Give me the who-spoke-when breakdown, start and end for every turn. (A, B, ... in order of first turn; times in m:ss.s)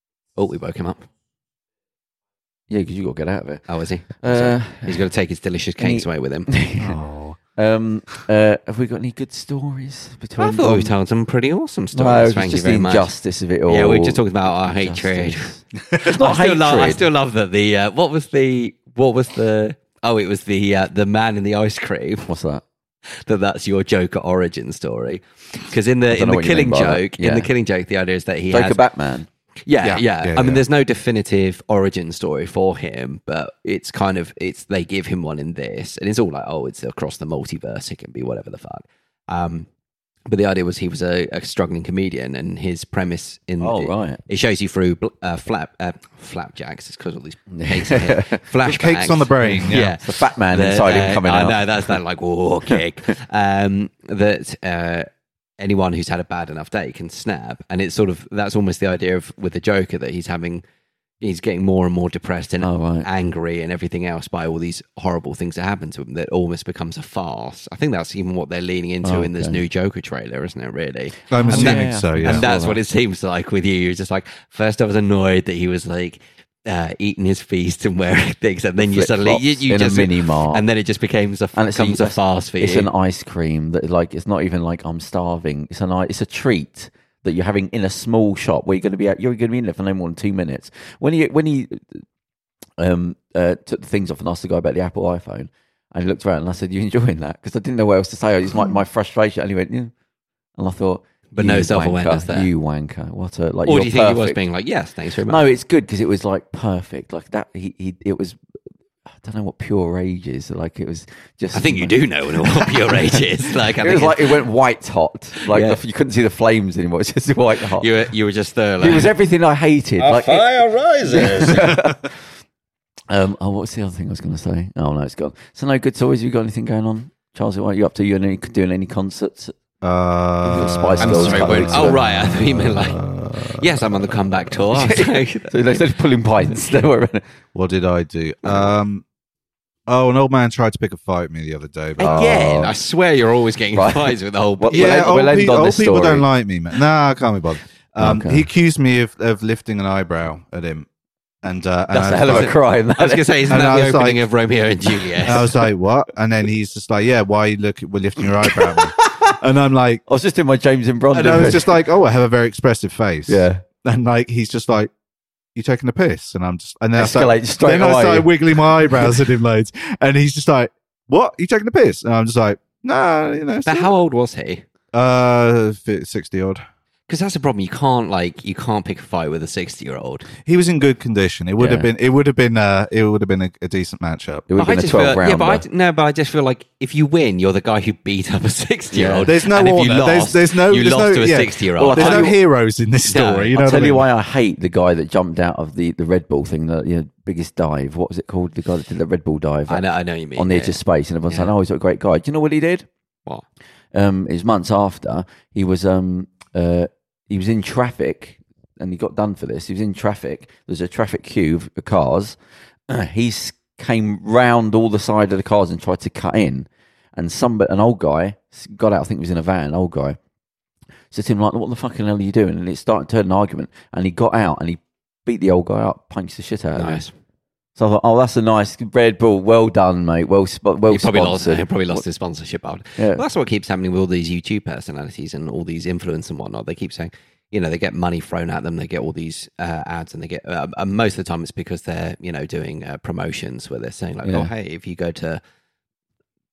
0:00.4-0:01.1 A
0:02.7-0:05.0 B
0:03.7-0:06.5 A
0:05.8-0:07.0 B
0:06.8-0:07.4 C
0:07.6-0:10.9 B
0:10.4-0:13.1 A
0:11.9-0:17.0 B
0:13.7-0:22.3 A
0:22.3-0:22.6 B
0:23.2-0:28.8 A
0:26.1-0:27.5 B
0:28.5-0:29.3 B
0:29.7-0:39.7 A
0:29.8-0:30.6 C
0:40.3-0:55.1 A
0:43.6-0:44.2 B
0:47.5-0:48.4 B
0:48.6-0:49.9 C
0:49.4-0:52.0 B
0:55.6-1:00.6 A
1:01.2-1:22.9 A
1:02.6-1:03.1 B
1:09.0-1:09.6 B
1:11.3-1:12.4 C
1:11.4-1:12.8 B
1:18.8-1:20.6 B
1:21.6-1:32.0 B
1:32.8-1:39.9 B
1:40.6-1:44.4 B
1:41.3-1:42.5 A
1:43.7-1:45.4 A
1:45.3-1:48.4 B
1:49.2-1:52.0 B
1:51.5-1:54.4 A
1:52.7-1:57.9 B
1:55.5-1:55.8 A
1:57.8-1:59.1 A
1:58.8-2:02.1 B
2:00.1-2:01.7 A
2:01.2-2:02.0 C
2:03.1-2:09.5 B
2:09.8-2:14.7 C
2:10.4-2:12.2 B
2:11.0-2:15.8 A
2:14.7-2:17.2 B
2:17.5-2:19.0 C
2:18.4-2:18.7 A
2:19.9-2:22.7 C
2:22.0-2:22.7 B
2:22.0-2:25.1 A
2:23.8-2:26.3 B
2:24.7-2:30.9 C
2:28.0-2:28.5 B
2:31.4-2:32.5 C
2:31.9-2:33.6 B
2:32.3-2:35.5 A
2:33.5-2:34.2 C
2:35.2-2:40.0 C
2:38.4-2:39.4 B
2:40.1-2:41.8 B
2:41.1-2:44.9 C
2:43.3-2:43.6 B
2:45.6-2:53.9 C
2:47.0-2:49.1 B
2:53.6-2:54.6 A
2:54.9-2:56.6 C
2:57.1-3:00.3 A
3:00.4-3:04.5 C
3:01.6-3:01.9 B
3:04.5-3:05.6 B
3:04.6-3:12.3 A
3:08.9-3:09.3 B
3:09.2-3:14.1 C
3:11.8-3:12.4 B
3:13.1-3:13.6 A
3:13.5-3:19.8 B
3:19.7-3:21.5 A
3:20.4-3:22.9 B
3:23.9-3:32.4 B
3:32.9-3:40.2 B
3:41.1-3:47.0 B
3:46.8-3:47.1 A
3:47.8-3:52.0 B
3:50.9-4:05.4 A
3:53.0-3:53.2 B
4:04.2-4:04.5 B